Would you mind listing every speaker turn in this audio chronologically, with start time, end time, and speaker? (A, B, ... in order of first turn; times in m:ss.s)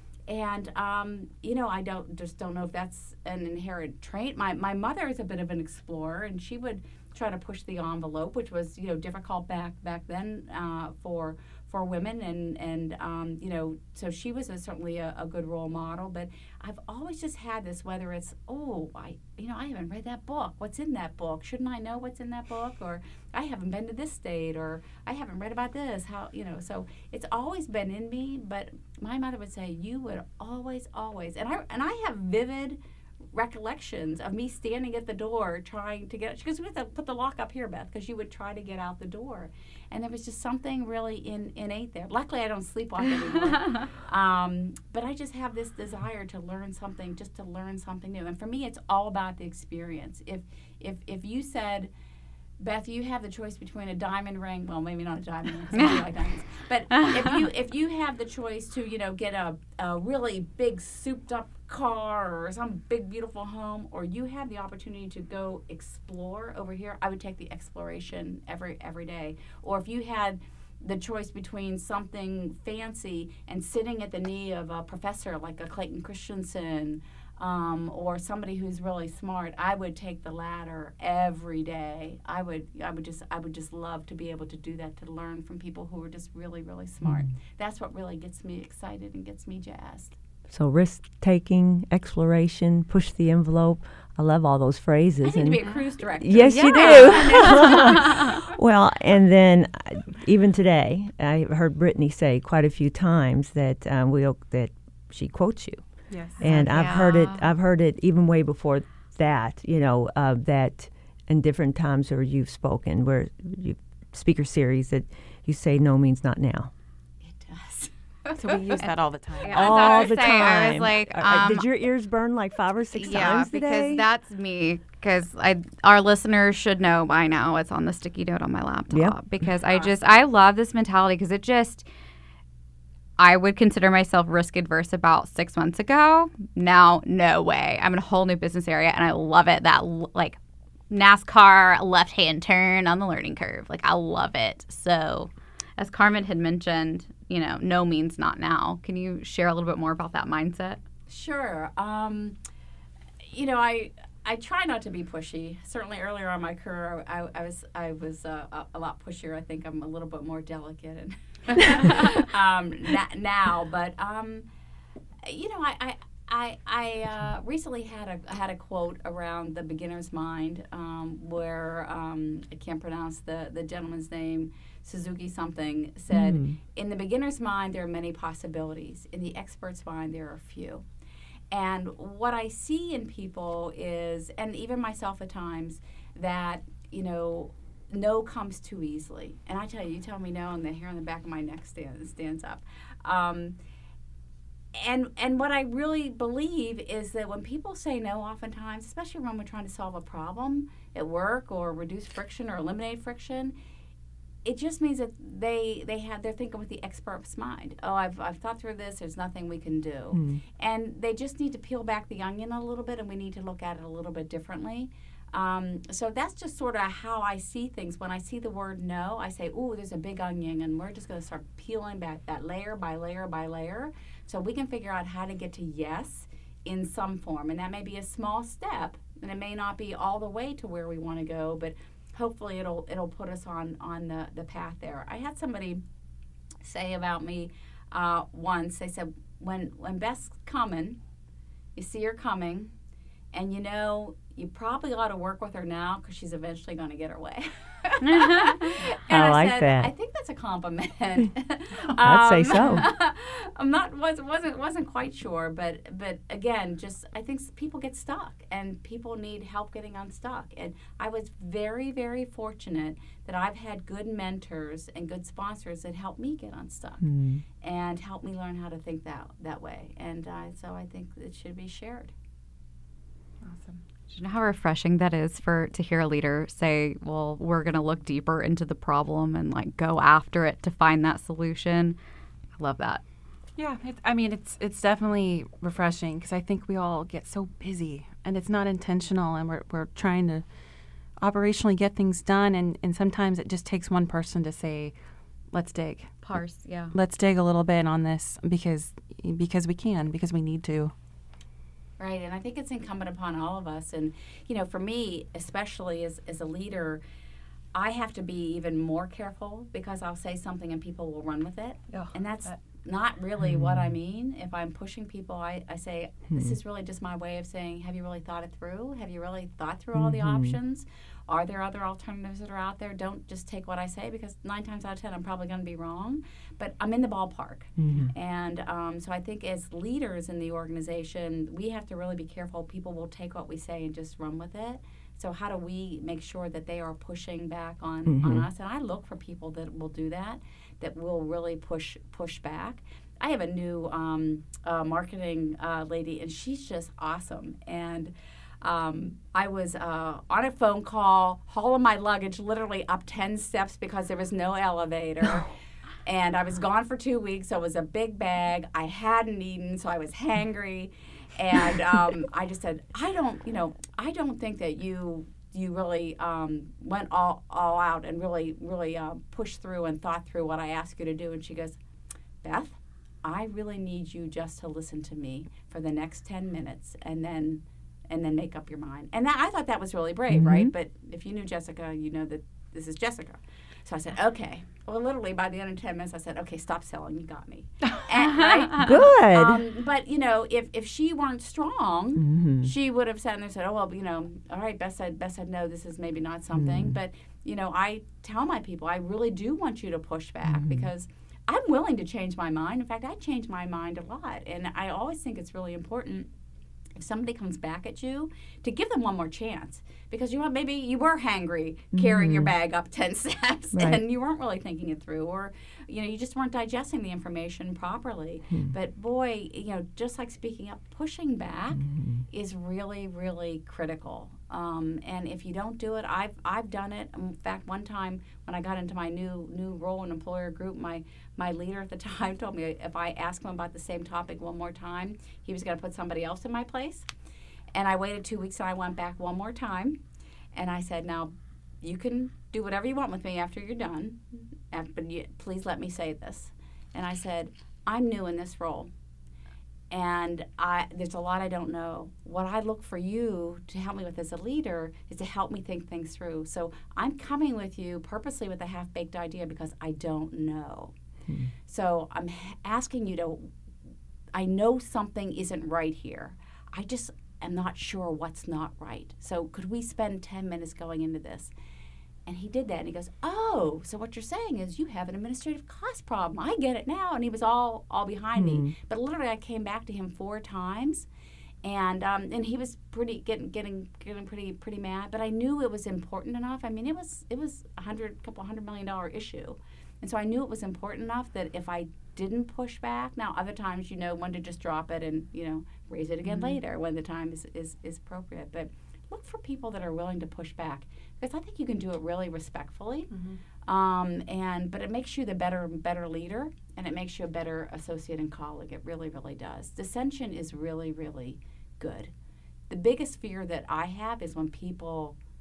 0:00.3-0:32.8 A
0:33.3-0:51.9 A
0:52.6-1:30.2 A
1:27.0-1:27.3 B
1:30.5-1:56.7 B
1:35.2-1:38.4 A
1:36.4-1:38.3 C
1:46.1-1:46.7 D
1:46.4-1:47.4 C
1:57.2-1:58.8 A
1:58.3-1:59.8 D
1:59.4-2:01.7 C
1:59.4-2:00.2 A
1:59.5-2:04.0 B
2:03.0-2:11.9 C
2:08.9-2:09.2 B
2:13.2-2:20.4 C
2:20.9-2:30.8 C
2:31.1-2:32.4 A
2:33.2-2:44.5 A
2:45.2-3:00.8 A
2:56.1-2:56.6 B
3:01.5-3:13.6 A
3:14.7-3:23.6 A
3:24.4-3:55.8 A
3:30.1-3:30.4 B
3:56.6-4:01.0 A
4:01.8-4:02.7 A
4:03.3-4:27.0 A
4:08.0-4:08.8 C
4:09.1-4:09.9 B
4:12.0-4:12.9 B
4:27.0-4:27.4 B
4:27.6-4:32.1 A
4:33.4-4:33.8 D
4:34.1-4:42.0 C
4:42.6-4:43.0 C
4:43.6-4:50.4 D
4:51.2-4:55.0 D
4:55.5-4:56.4 D
4:56.2-4:56.9 C
4:56.9-5:00.9 D
5:02.0-5:07.0 A
5:07.8-5:55.5 A
5:11.9-5:12.6 D
5:13.4-5:13.9 B
5:19.9-5:20.6 B
5:27.8-5:28.1 B
5:38.1-5:38.4 B
5:56.0-6:11.8 A
6:12.4-6:46.3 A
6:20.3-6:20.7 B
6:28.4-6:28.9 C
6:28.8-6:29.7 B
6:32.2-6:32.7 B
6:36.5-6:37.0 B
6:40.4-6:40.9 B
6:47.0-7:17.1 A
6:51.9-6:52.5 B
6:53.7-6:54.0 B
7:01.8-7:02.2 B
7:17.8-7:20.0 A
7:20.6-7:28.9 A
7:29.9-7:40.9 A
7:41.3-7:41.5 B
7:41.7-7:43.6 A
7:44.3-7:51.5 A
7:52.3-8:01.1 A
7:58.4-7:58.7 B
8:01.6-8:23.1 A
8:16.2-8:16.6 D
8:23.1-8:23.4 D
8:23.7-8:32.1 A
8:32.7-8:35.2 A